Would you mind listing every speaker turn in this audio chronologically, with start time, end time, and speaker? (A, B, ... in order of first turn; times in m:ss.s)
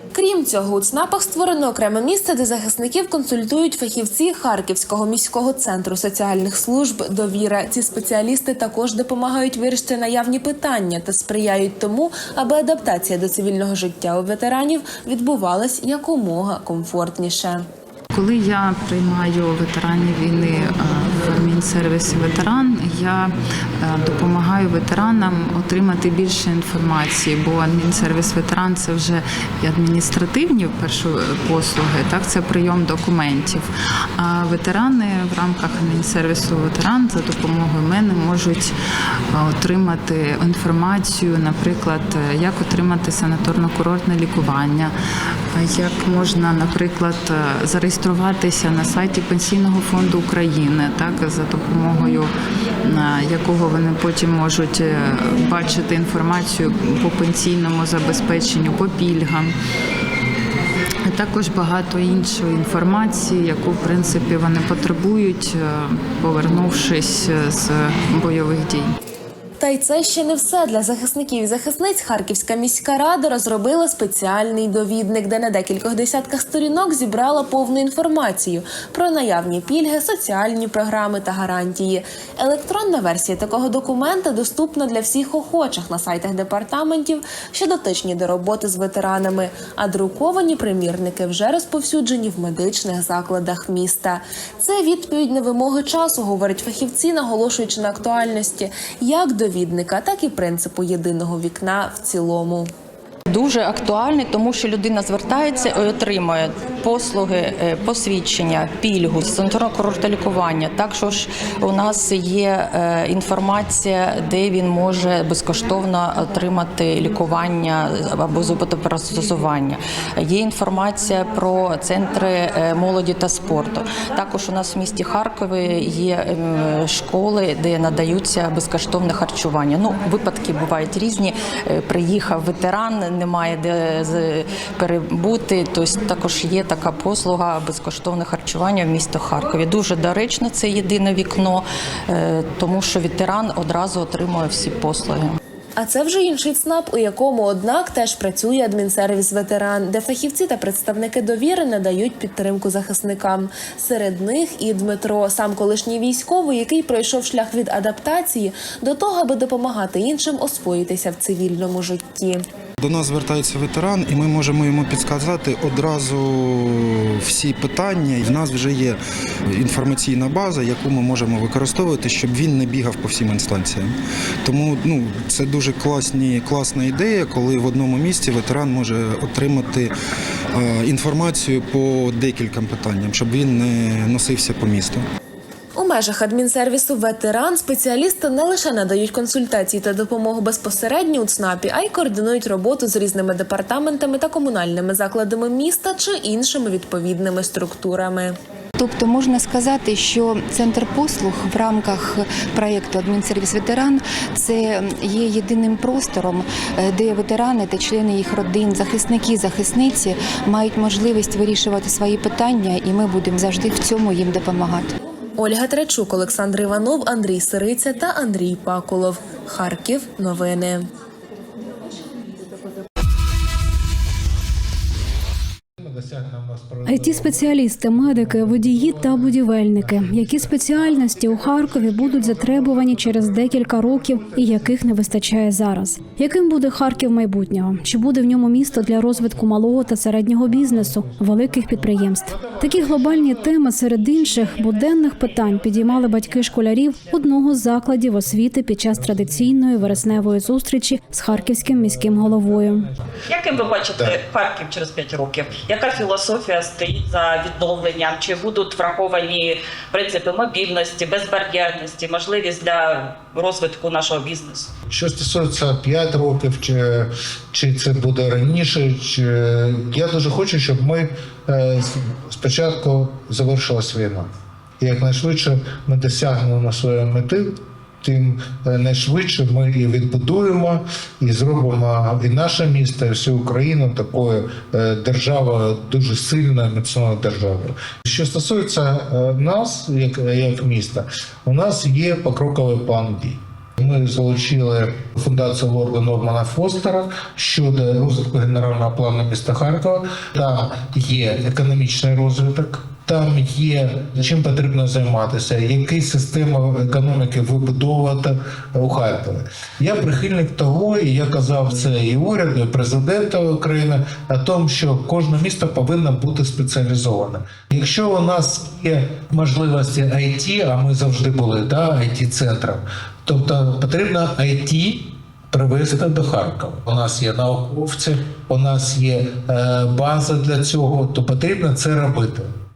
0:00.1-0:17.6 A
0:18.1-0:38.7 B
0:39.3-0:44.9 B
0:45.5-0:59.6 B
1:01.1-1:08.9 B
1:09.6-1:42.7 A
1:43.3-2:25.4 C
2:25.8-2:42.4 A
2:42.8-2:49.0 D
2:49.5-2:53.9 D
2:54.4-2:59.9 D
3:00.6-3:05.0 D
3:05.8-3:18.4 A
3:18.8-3:34.9 E
3:35.4-3:40.9 A
3:45.8-3:50.6 F
3:46.9-4:12.9 G
3:51.5-3:54.7 F
4:02.0-4:02.9 F
4:09.2-4:10.2 F
4:12.6-4:12.9 F
4:13.3-4:24.7 H
4:24.9-5:32.6 F